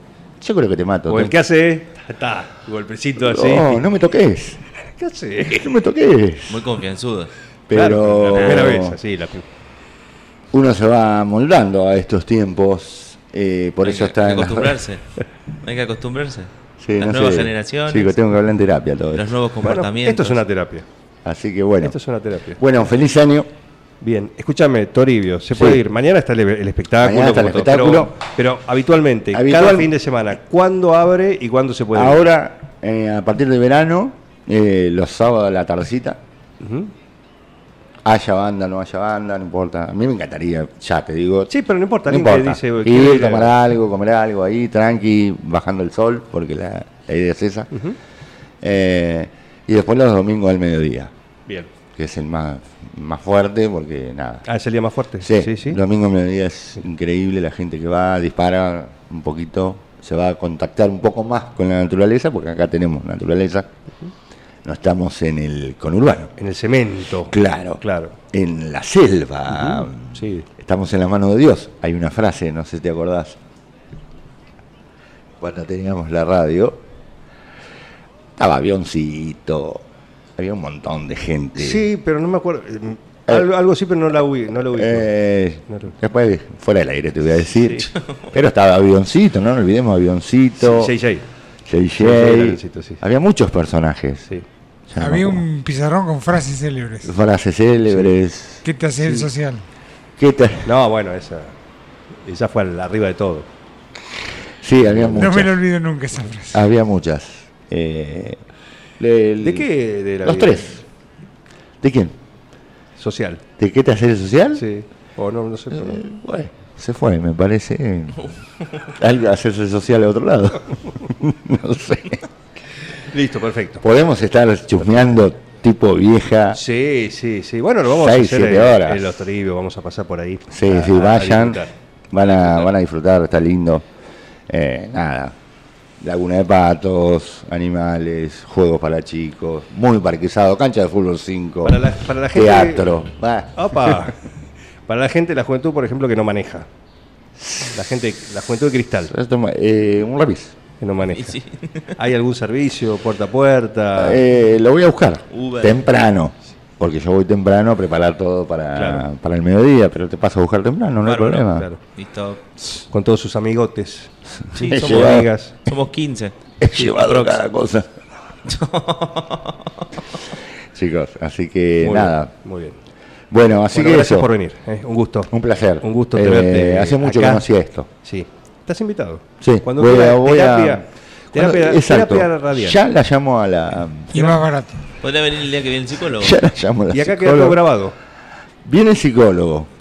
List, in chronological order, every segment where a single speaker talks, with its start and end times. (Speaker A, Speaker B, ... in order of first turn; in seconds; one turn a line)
Speaker A: 0.4-1.4
Speaker B: 1.1-3.9
Speaker A: 3.2-4.6
Speaker B: 5.0-5.7
Speaker A: 5.5-6.7
Speaker C: 6.5-7.3
Speaker A: 7.7-9.0
Speaker B: 7.7-9.4
Speaker C: 8.3-8.7
Speaker A: 10.5-14.8
Speaker C: 13.8-15.0
Speaker C: 15.6-18.2
Speaker A: 16.8-19.4
Speaker C: 19.1-20.4
Speaker B: 19.6-20.9
Speaker A: 21.2-22.0
Speaker B: 21.8-22.6
Speaker A: 22.6-23.5
Speaker B: 24.0-32.3
Speaker A: 25.6-25.8
Speaker A: 27.0-28.1
Speaker A: 29.3-29.9
Speaker A: 31.9-36.2
Speaker B: 36.6-36.9
Speaker A: 38.0-41.5
Speaker B: 41.5-43.5
Speaker A: 42.0-47.7
Speaker A: 48.6-51.1
Speaker A: 52.0-54.5
Speaker B: 54.5-55.8
Speaker A: 55.2-63.7
Speaker A: 64.7-66.3
Speaker B: 66.4-68.2
Speaker A: 67.3-73.4
Speaker B: 69.5-70.5
Speaker A: 75.4-76.8
Speaker A: 78.4-79.8
Speaker A: 80.4-81.9
Speaker B: 81.6-85.1
Speaker A: 84.7-90.9
Speaker B: 87.5-87.9
Speaker B: 90.6-91.2
Speaker A: 91.7-94.3
Speaker B: 92.0-93.0
Speaker A: 94.9-95.5
Speaker D: 95.0-97.1
Speaker A: 97.0-98.6
Speaker D: 98.7-99.6
Speaker B: 99.0-99.3
Speaker A: 100.2-100.7
Speaker B: 100.7-101.5
Speaker B: 102.2-103.5
Speaker A: 104.6-105.6
Speaker B: 104.8-105.3
Speaker D: 105.2-106.6
Speaker A: 106.5-108.4
Speaker A: 109.0-109.7
Speaker B: 109.4-110.7
Speaker A: 110.2-110.8
Speaker A: 111.8-112.2
Speaker B: 113.0-113.4
Speaker A: 113.6-114.6
Speaker B: 114.5-116.0
Speaker A: 115.7-118.3
Speaker A: 118.9-122.2
Speaker B: 123.1-123.8
Speaker A: 123.8-126.6
Speaker B: 126.5-131.7
Speaker A: 127.8-129.2
Speaker A: 130.5-133.9
Speaker A: 134.5-135.3
Speaker A: 136.0-144.1
Speaker B: 141.7-142.9
Speaker B: 143.6-144.2
Speaker B: 144.9-146.7
Speaker A: 147.4-147.8
Speaker B: 147.7-149.1
Speaker A: 149.1-150.6
Speaker B: 150.8-151.4
Speaker C: 151.1-151.9
Speaker B: 152.0-154.2
Speaker A: 154.0-161.7
Speaker C: 155.3-155.9
Speaker B: 158.8-159.1
Speaker C: 161.1-162.4
Speaker B: 162.9-165.6
Speaker A: 164.5-165.3
Speaker C: 164.6-166.3
Speaker A: 166.6-168.0
Speaker C: 168.5-169.8
Speaker A: 170.7-172.3
Speaker B: 171.8-172.8
Speaker A: 173.3-174.3
Speaker B: 173.7-177.5
Speaker A: 175.3-177.9
Speaker B: 178.0-182.8
Speaker A: 179.4-184.3
Speaker D: 184.1-184.8
Speaker C: 185.0-186.4
Speaker A: 186.2-187.7
Speaker B: 186.9-187.9
Speaker A: 188.7-189.7